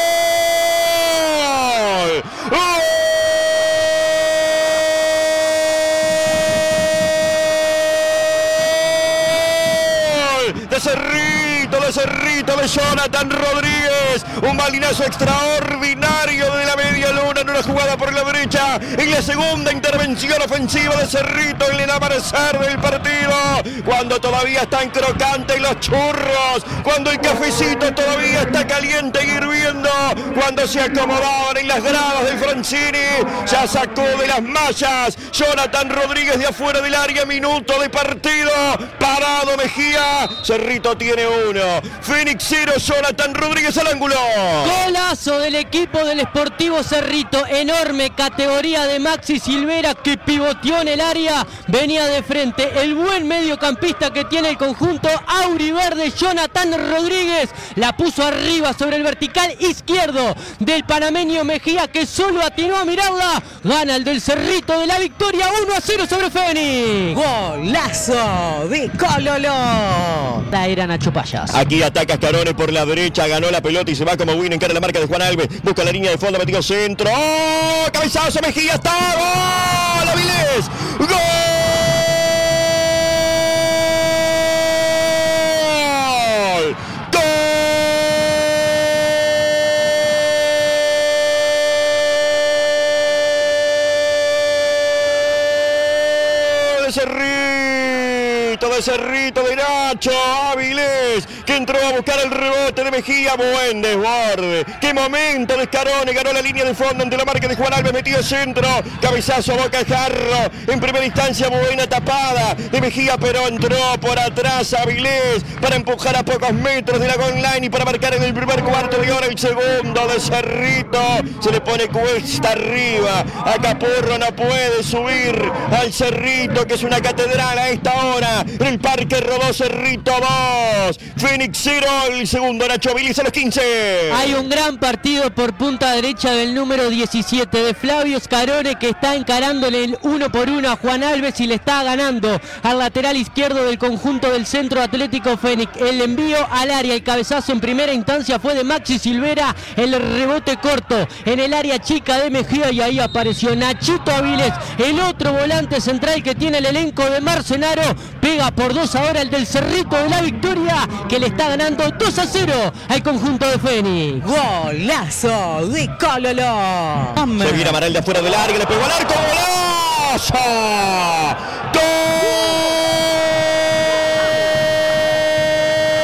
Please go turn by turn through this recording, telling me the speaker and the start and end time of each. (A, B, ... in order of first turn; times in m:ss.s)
0:00.9-0:03.8 A
0:09.0-0:44.8 A
0:44.6-1:07.2 B
1:07.1-1:10.5 C
1:10.5-1:11.6 B
1:11.5-1:29.1 A
1:36.2-2:14.4 A
2:14.1-2:44.3 B
2:44.2-2:47.8 C
2:47.4-2:54.0 A